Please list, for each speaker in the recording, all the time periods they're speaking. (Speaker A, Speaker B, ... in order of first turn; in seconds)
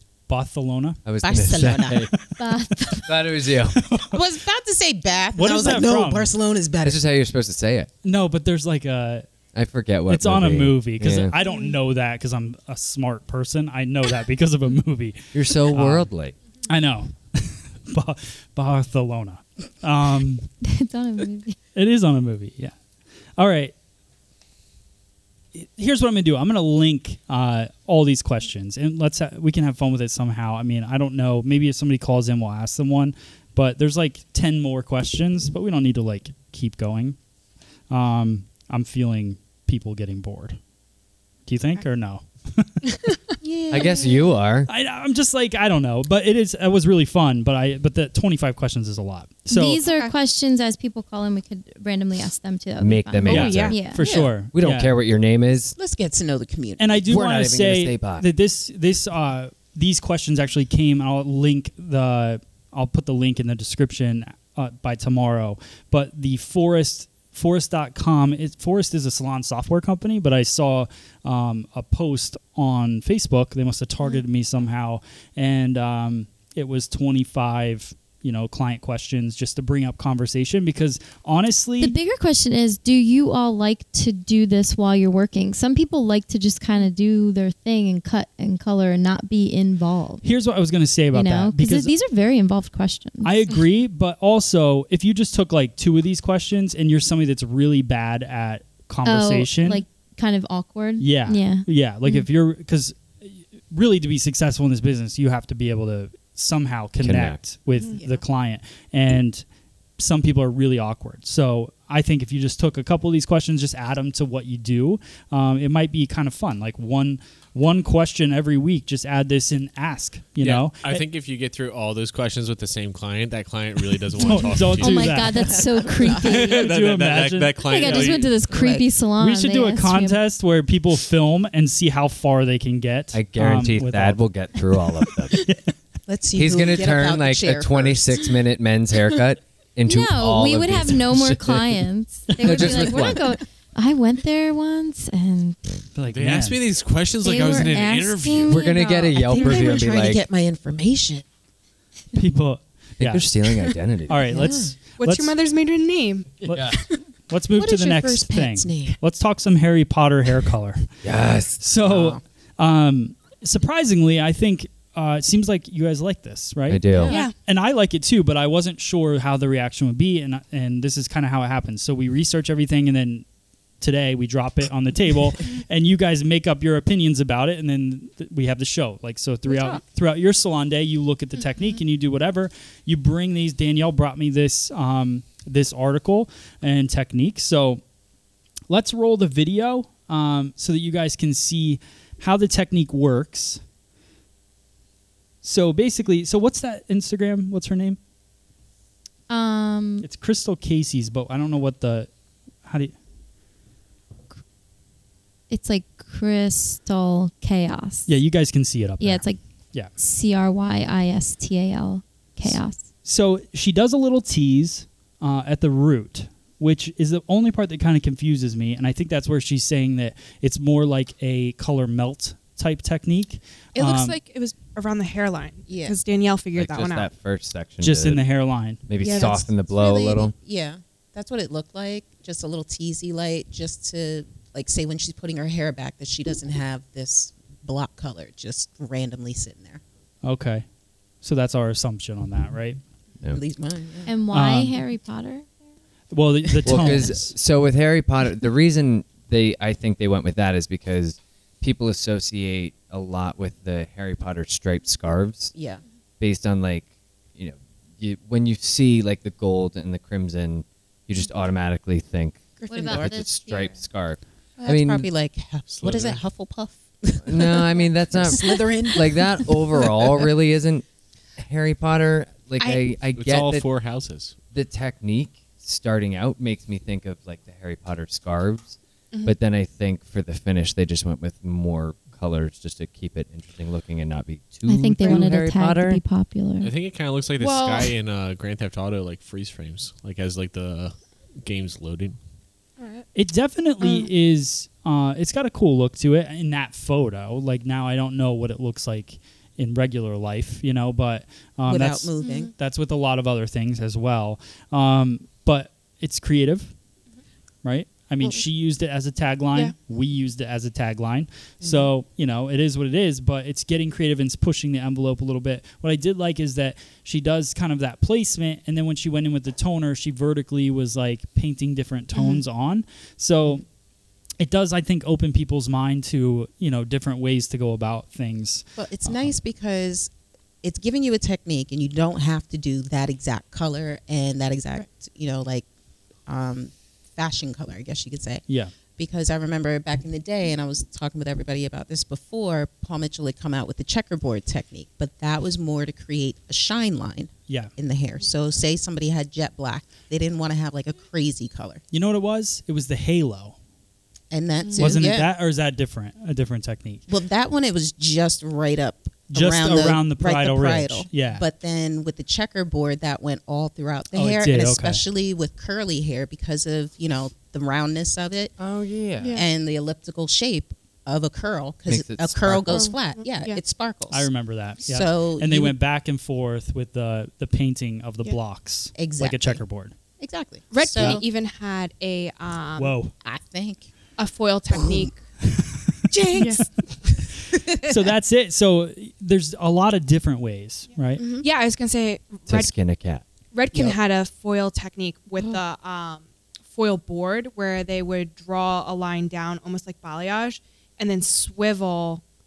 Speaker A: 0.3-1.0, 2.1-3.1, 3.7-4.2, 5.3-6.3, 8.0-9.2, 10.1-16.1, 16.7-20.5, 21.7-22.7, 23.4-23.7, 25.5-37.2, 37.9-40.6, 41.5-42.7, 44.7-49.8, 53.2-54.9, 56.8-81.9, 90.2-91.9, 93.2-99.8, 101.0-109.4, 110.0-121.0, 124.2-125.6, 126.3-128.2, 129.2-134.2, 135.3-135.6, 142.3-142.8, 145.9-146.6, 152.1-153.3, 154.1-155.3, 156.4-156.8, 157.3-160.9, 161.6-173.2, 173.8-187.8, 188.7-193.6, 195.4-198.0, 200.0-202.1, 202.6-202.9, 208.1-209.9, 212.4-224.2, 227.8-228.8, 240.2-240.6, 241.2-242.8, 244.3-244.8, 246.1-247.3, 293.1-306.7, 307.6-323.6, 324.4-329.3, 338.5-338.7, 351.9-353.6, 354.8-357.1, 359.3-361.4, 364.1-365.0, 374.1-379.9, 380.9-381.2, 382.8-383.1, 385.4-386.6, 387.6-391.2
Speaker B: 1.0-2.1, 3.0-3.8, 6.8-7.9, 9.5-11.3, 15.3-16.3, 43.7-44.7, 52.8-55.8, 57.0-58.2, 107.0-107.4, 133.1-135.4, 136.3-141.8, 142.4-143.2, 148.4-150.2, 153.0-154.3, 156.5-156.8, 161.0-161.6, 166.7-167.2, 226.5-228.2, 228.9-230.3, 246.6-255.5, 256.2-265.1, 267.2-270.8, 271.4-273.6, 274.5-286.0, 368.6-369.3, 371.9-372.9, 392.5-393.2
Speaker C: 1.2-2.1, 4.1-7.0, 43.4-44.4, 53.4-54.3, 55.8-57.0, 125.3-126.4, 128.4-128.9, 136.1-138.3, 148.8-151.2, 154.3-154.8, 157.5-159.0, 161.8-162.2, 225.7-226.0, 229.0-239.8, 243.3-244.1, 255.5-255.8, 262.6-263.3, 264.6-270.3, 301.6-302.5, 311.6-311.9, 328.8-330.1, 330.6-335.6, 336.3-338.4, 338.9-351.8, 354.3-355.3, 357.1-368.5, 369.3-374.3, 374.8-375.7, 378.9-379.6, 380.2-381.2, 383.1-383.9, 384.7-385.1, 386.1-386.6, 387.5-387.8, 391.2-391.5
Speaker D: 2.4-3.1, 20.6-21.6, 49.5-54.1, 81.8-90.2, 91.1-93.4, 99.0-102.2, 124.2-126.7, 127.6-130.2, 139.8-145.6, 147.2-149.7, 199.3-200.1, 205.5-208.1, 209.0-212.8, 244.1-245.5, 262.7-263.8, 284.7-286.7
Speaker E: 49.8-50.1, 107.7-108.0, 154.9-156.9, 167.1-167.3, 179.5-179.8, 223.7-227.1, 229.0-229.4, 272.6-272.8, 287.4-287.9, 293.8-294.1, 302.2-302.5, 322.1-322.4, 354.6-355.1, 369.2-369.4, 372.7-373.6, 380.7-383.0, 384.2-385.2, 386.1-386.8, 391.2-392.7, 393.5-402.2
Speaker F: 120.4-125.3, 126.1-128.4, 146.1-148.6, 265.7-266.2, 273.1-274.3, 286.6-292.1